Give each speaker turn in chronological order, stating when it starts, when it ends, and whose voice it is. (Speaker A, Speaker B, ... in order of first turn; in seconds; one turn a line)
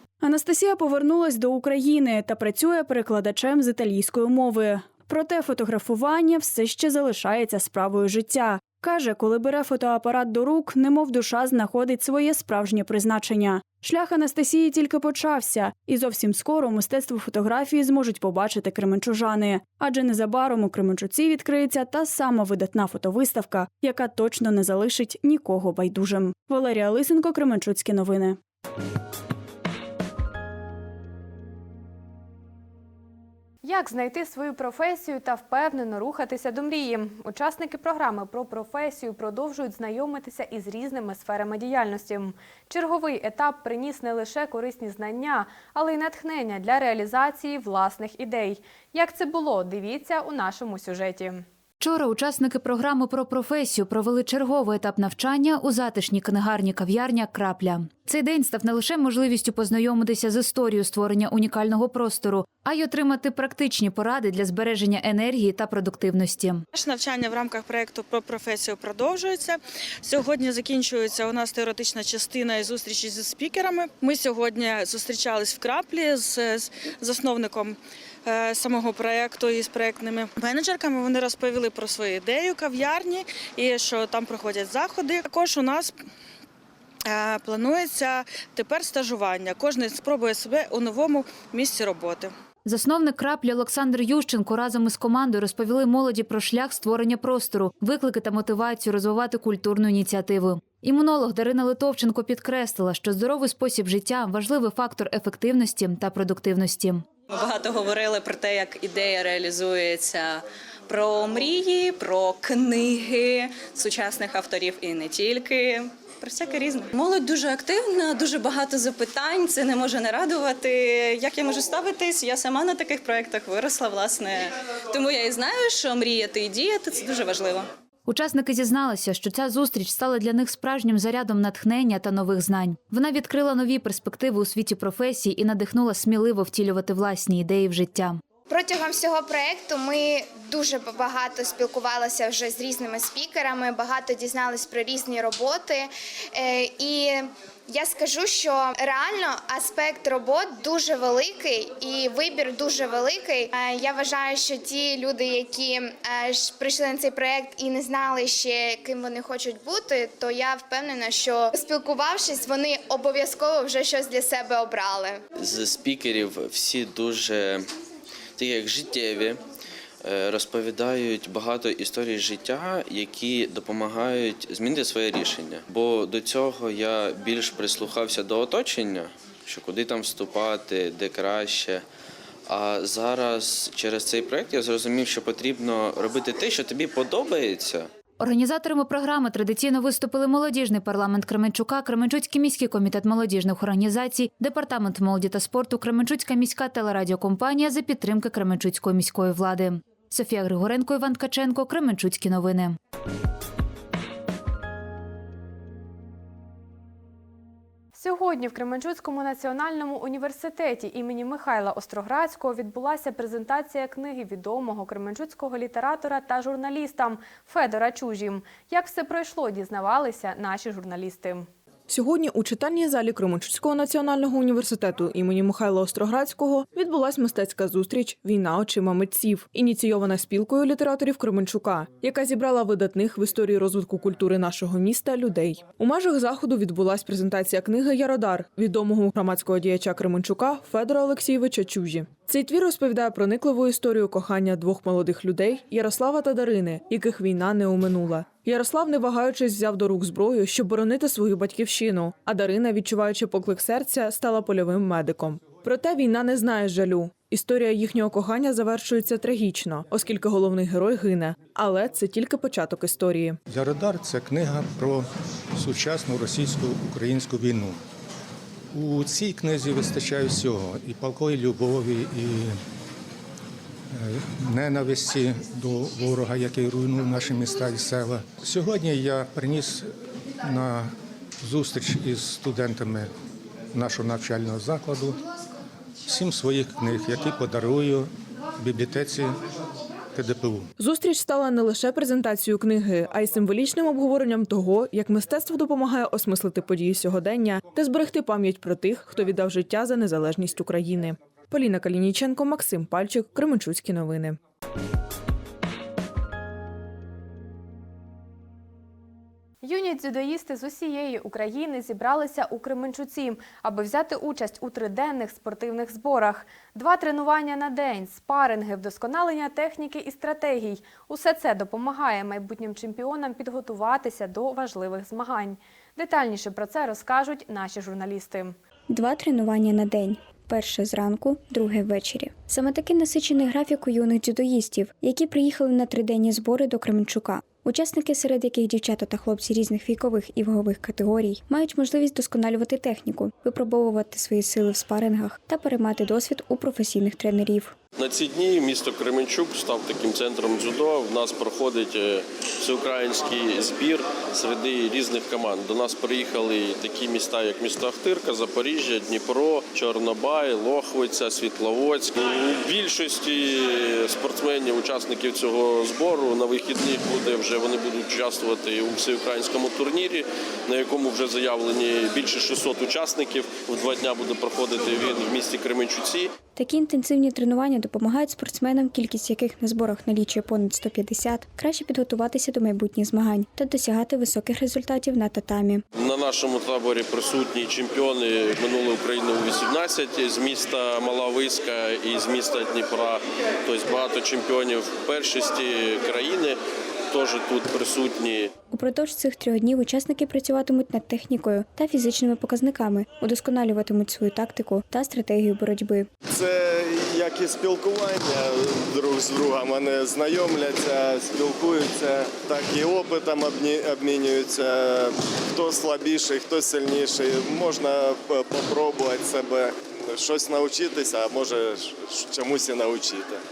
Speaker A: 0.2-28.4
Speaker B: 33.6-51.4
Speaker C: 51.8-66.7
Speaker D: 66.7-86.0
Speaker D: 87.1-92.3
Speaker C: 92.6-107.0
Speaker E: 107.3-127.7
Speaker C: 128.1-138.2
Speaker F: 138.5-165.2
Speaker G: 165.4-167.6
Speaker G: 168.4-169.4
Speaker G: 170.0-181.8
Speaker G: 182.5-187.9
Speaker C: 188.2-202.8
Speaker B: 207.9-221.5
Speaker H: 221.9-263.4
Speaker I: 263.5-267.8
Speaker I: 268.7-272.6
Speaker I: 273.9-279.9
Speaker I: 280.4-280.9
Speaker I: 281.4-283.1
Speaker I: 283.7-285.2
Speaker I: 286.0-289.4
Speaker I: 290.1-290.7
Speaker H: 290.8-304.4
Speaker B: 309.6-328.5
Speaker J: 328.9-347.8
Speaker K: 348.0-376.3
Speaker J: 376.6-385.8
Speaker K: 385.9-396.6
Speaker K: 397.1-398.5
Speaker J: 398.7-406.1
Speaker I: 406.3-423.3